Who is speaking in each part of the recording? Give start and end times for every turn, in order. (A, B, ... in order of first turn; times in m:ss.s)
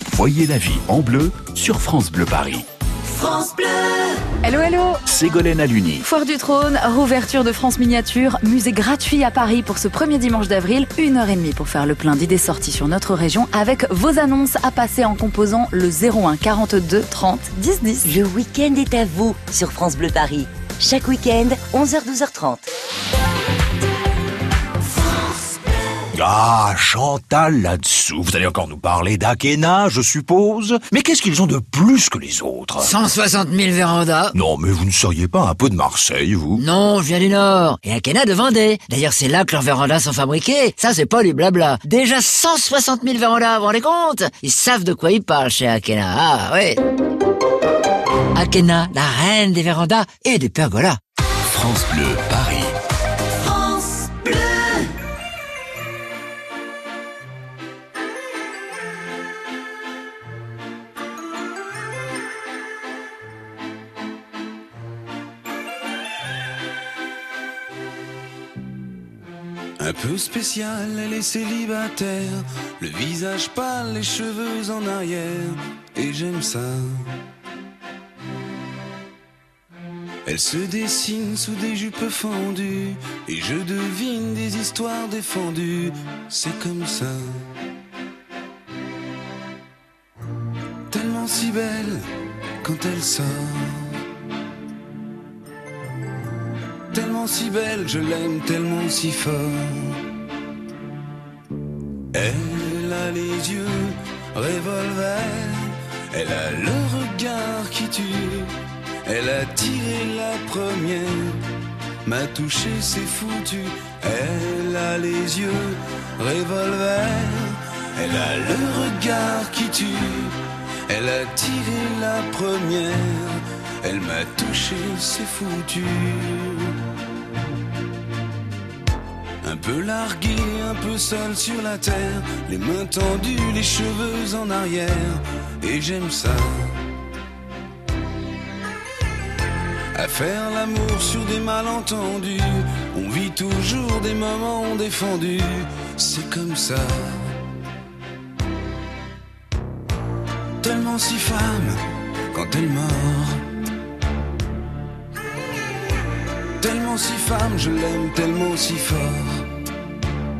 0:00.1-0:02.6 A
0:03.0-0:04.2 B
0:04.4-0:05.0 C
0:05.1-0:06.0 A
0:06.0-0:18.1 C
0:18.0-0:22.7 B
0:25.0-0:25.6 B
0:26.1-0:32.9 D
0:32.8-0:34.3 E
0:34.3-0:36.6 D
0:36.6-0:46.8 E
0:48.3-0:51.0 E
0:51.4-0:52.7 A
0:53.4-0:54.9 B
1:09.8-1:17.1 F
1:20.2-1:27.4 F
1:30.9-1:32.0 F
1:32.6-1:33.9 F
1:36.9-1:40.0 F
1:42.1-1:48.5 F
1:49.0-1:51.4 F
1:52.0-2:00.4 F
2:00.9-2:06.7 F
2:09.4-2:16.7 F
2:19.9-2:27.3 F
2:30.6-2:31.8 F
2:32.3-2:33.4 F
2:36.6-2:39.4 F